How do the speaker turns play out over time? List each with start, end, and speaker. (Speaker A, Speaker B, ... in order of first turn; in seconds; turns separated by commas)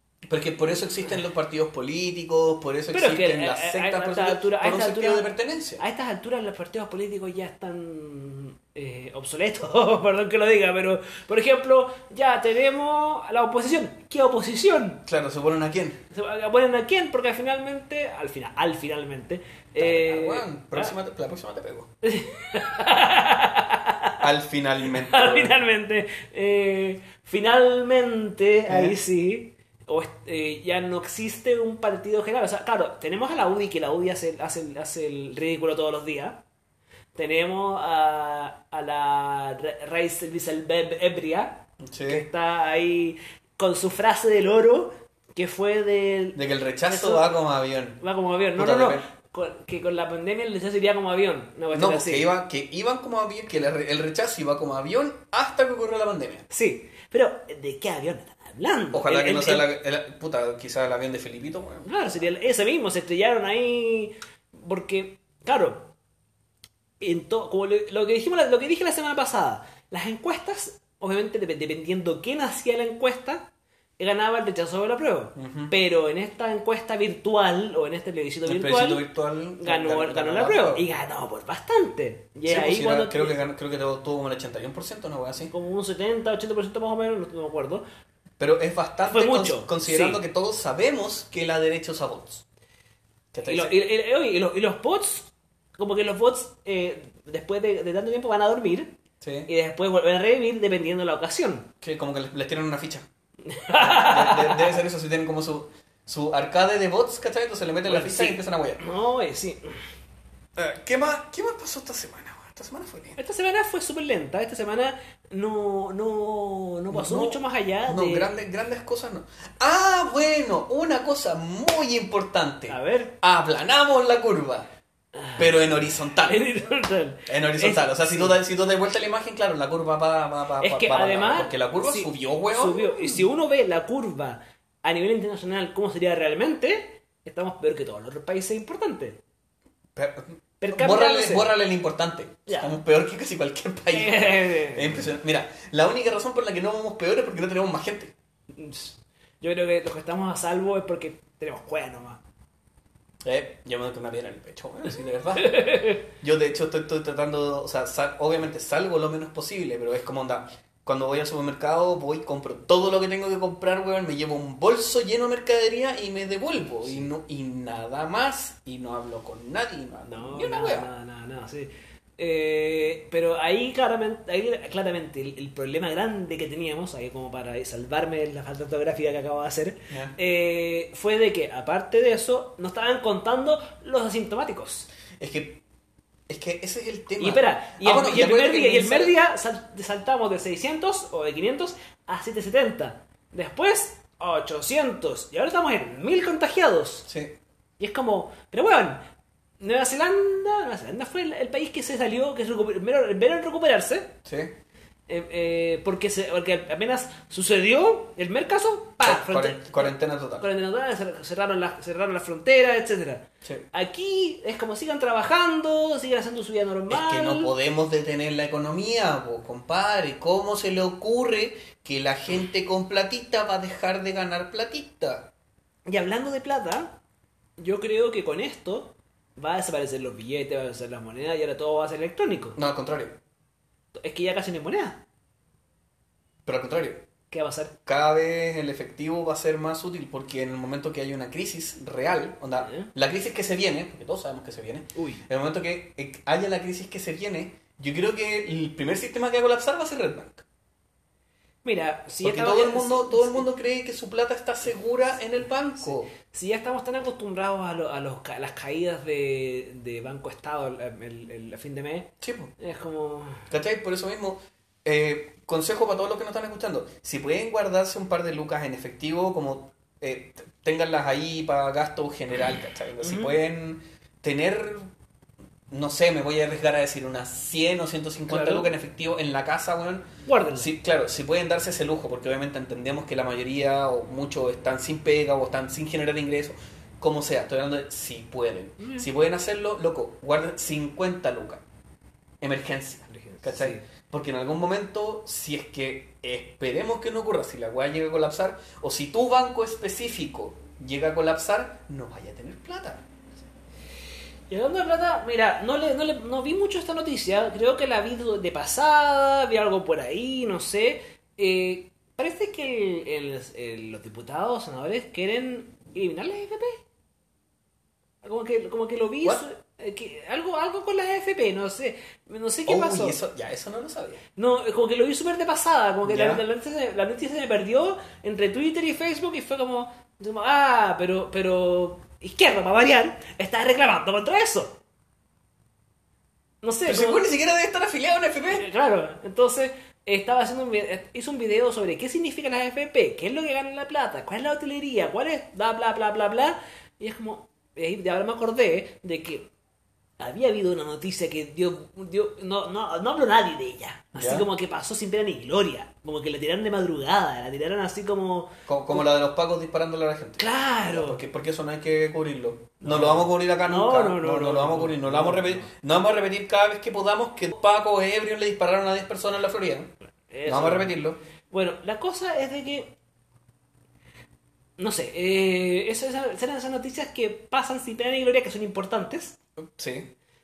Speaker A: 0.3-5.8, Speaker B: 2.9-15.0, Speaker A: 15.1-16.0, Speaker B: 16.1-20.9, Speaker A: 19.8-21.9, Speaker B: 22.0-24.2, Speaker A: 24.2-25.6, Speaker B: 25.0-36.4, Speaker A: 28.7-28.9, Speaker B: 37.1-47.3, Speaker A: 41.8-42.3, Speaker A: 46.4-48.0, Speaker B: 48.0-52.3, Speaker A: 48.5-49.0, Speaker A: 51.7-56.5, Speaker B: 56.5-59.7, Speaker A: 58.9-62.2, Speaker B: 61.9-65.9, Speaker B: 67.0-79.0, Speaker A: 75.4-75.7, Speaker A: 78.5-80.9, Speaker B: 79.6-83.4, Speaker A: 82.4-85.5, Speaker B: 85.5-87.8, Speaker A: 88.4-92.4, Speaker B: 89.1-90.2, Speaker A: 93.3-93.7, Speaker B: 93.4-101.7, Speaker A: 99.2-99.5, Speaker A: 101.8-103.1, Speaker B: 103.5-104.8, Speaker A: 103.7-108.8, Speaker B: 107.8-109.8, Speaker A: 110.6-113.2, Speaker B: 113.2-118.3, Speaker A: 116.9-124.7, Speaker B: 122.7-123.1, Speaker B: 125.1-128.4, Speaker A: 125.4-126.4, Speaker A: 127.3-133.3, Speaker B: 130.6-139.2, Speaker A: 139.9-148.1, Speaker B: 140.6-141.6, Speaker B: 142.5-142.7, Speaker B: 143.9-145.1, Speaker B: 148.5-152.2, Speaker A: 153.2-170.9, Speaker B: 155.4-156.0, Speaker B: 170.1-184.9, Speaker A: 179.9-180.1, Speaker A: 185.2-185.6, Speaker A: 186.3-189.2, Speaker B: 187.2-197.1, Speaker A: 197.1-197.4, Speaker B: 197.8-199.0, Speaker B: 199.6-204.1, Speaker A: 204.2-204.5, Speaker B: 205.1-217.5, Speaker A: 209.0-210.5, Speaker A: 216.9-225.3, Speaker B: 225.9-227.0, Speaker B: 227.6-232.6, Speaker A: 232.6-233.2, Speaker B: 233.9-235.0, Speaker A: 236.4-237.1, Speaker B: 237.3-237.8, Speaker A: 237.9-250.4, Speaker B: 242.6-242.9, Speaker B: 244.9-245.2, Speaker B: 251.6-253.5, Speaker A: 252.2-256.1, Speaker B: 255.9-263.5, Speaker A: 262.2-262.5, Speaker A: 263.5-274.9, Speaker B: 273.0-273.3, Speaker A: 275.7-291.6, Speaker B: 278.3-278.7, Speaker B: 280.3-280.7, Speaker B: 288.8-289.1, Speaker A: 292.4-303.1, Speaker B: 293.1-293.8, Speaker B: 304.5-316.8, Speaker B: 318.2-323.2, Speaker A: 322.7-324.2, Speaker B: 324.4-334.8, Speaker A: 326.1-326.4, Speaker B: 336.6-337.2, Speaker A: 336.9-338.6, Speaker B: 338.5-349.5, Speaker B: 350.2-359.0, Speaker A: 354.1-354.5, Speaker A: 358.7-369.9, Speaker B: 360.4-361.2, Speaker B: 362.8-365.7, Speaker B: 370.3-370.9, Speaker A: 370.4-371.2, Speaker B: 371.5-372.9, Speaker B: 374.8-379.4, Speaker A: 379.6-380.1